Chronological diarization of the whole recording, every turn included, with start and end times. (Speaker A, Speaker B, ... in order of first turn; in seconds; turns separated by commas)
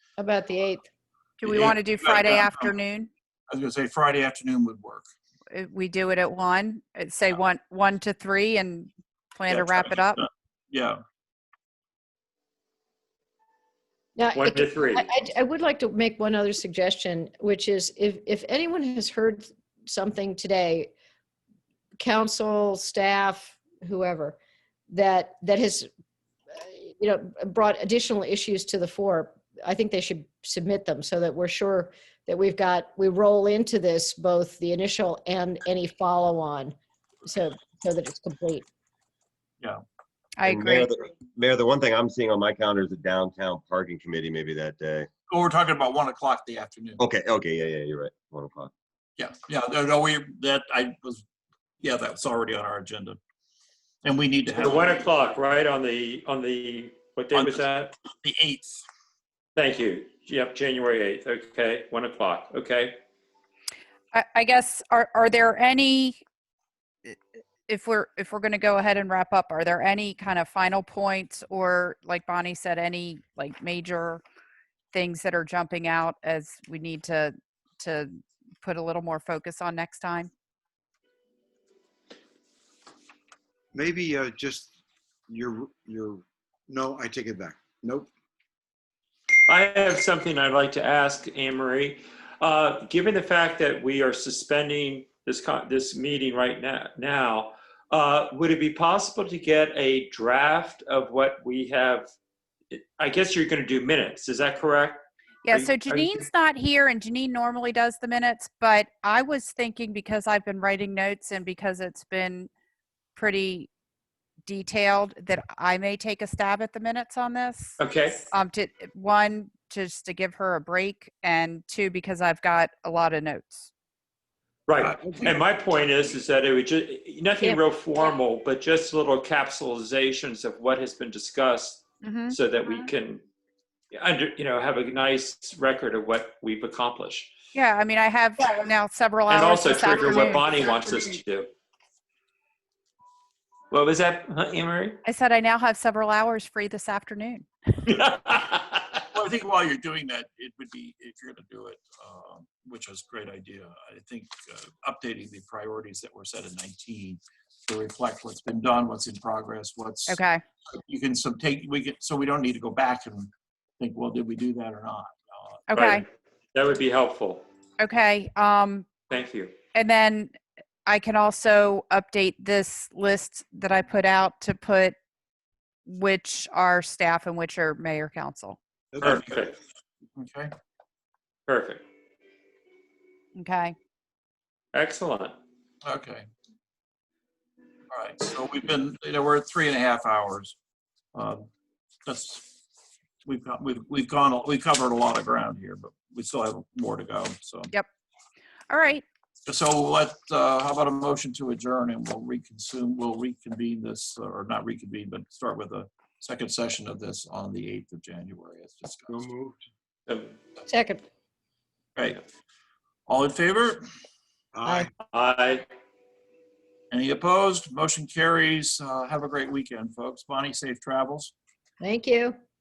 Speaker A: 0.2-0.9, Speaker B: 1.4-3.1, Speaker C: 1.4-2.7, Speaker C: 3.5-5.0, Speaker B: 5.5-10.2, Speaker C: 9.5-11.0, Speaker A: 14.2-20.9, Speaker D: 14.3-15.1, Speaker A: 22.0-24.4, Speaker A: 24.9-25.9, Speaker A: 26.6-38.6, Speaker B: 40.4-40.9, Speaker E: 40.5-45.1, Speaker C: 45.3-47.0, Speaker E: 47.0-48.7, Speaker C: 49.2-51.2, Speaker C: 51.8-53.2, Speaker C: 54.0-55.0, Speaker D: 54.6-58.0, Speaker C: 57.3-58.8, Speaker D: 59.6-63.0, Speaker B: 64.1-66.2, Speaker B: 67.7-74.2, Speaker B: 74.9-80.3, Speaker F: 83.7-84.7, Speaker F: 85.3-88.1, Speaker D: 89.5-102.1, Speaker D: 102.7-106.2, Speaker B: 105.5-112.5, Speaker B: 113.2-113.7, Speaker B: 114.5-123.7, Speaker D: 117.8-118.2, Speaker D: 124.7-133.2, Speaker C: 124.8-125.3, Speaker B: 132.0-132.9, Speaker D: 133.9-137.3, Speaker B: 137.6-140.7, Speaker D: 139.3-141.5, Speaker D: 143.7-145.0, Speaker B: 145.1-147.5, Speaker D: 147.9-149.0, Speaker C: 149.1-165.6, Speaker B: 160.1-160.4, Speaker B: 165.7-166.1, Speaker D: 165.7-167.4, Speaker B: 167.8-168.9, Speaker D: 169.1-169.6, Speaker B: 169.7-175.0, Speaker B: 175.9-178.6, Speaker F: 178.9-179.4, Speaker D: 179.0-179.5, Speaker C: 179.1-179.4, Speaker C: 180.2-180.5, Speaker D: 181.5-181.8, Speaker B: 183.4-183.8, Speaker D: 184.7-185.3, Speaker C: 185.8-186.3, Speaker C: 187.9-190.6, Speaker C: 191.1-191.5, Speaker C: 192.1-192.5, Speaker C: 193.2-197.7, Speaker B: 198.7-199.0, Speaker C: 199.5-209.2, Speaker F: 209.1-209.7, Speaker D: 210.1-210.4, Speaker A: 210.7-211.0, Speaker C: 212.0-212.2, Speaker C: 213.1-213.8, Speaker F: 214.5-214.9, Speaker A: 214.7-214.9, Speaker D: 215.1-215.7, Speaker C: 216.9-221.3, Speaker A: 221.8-222.4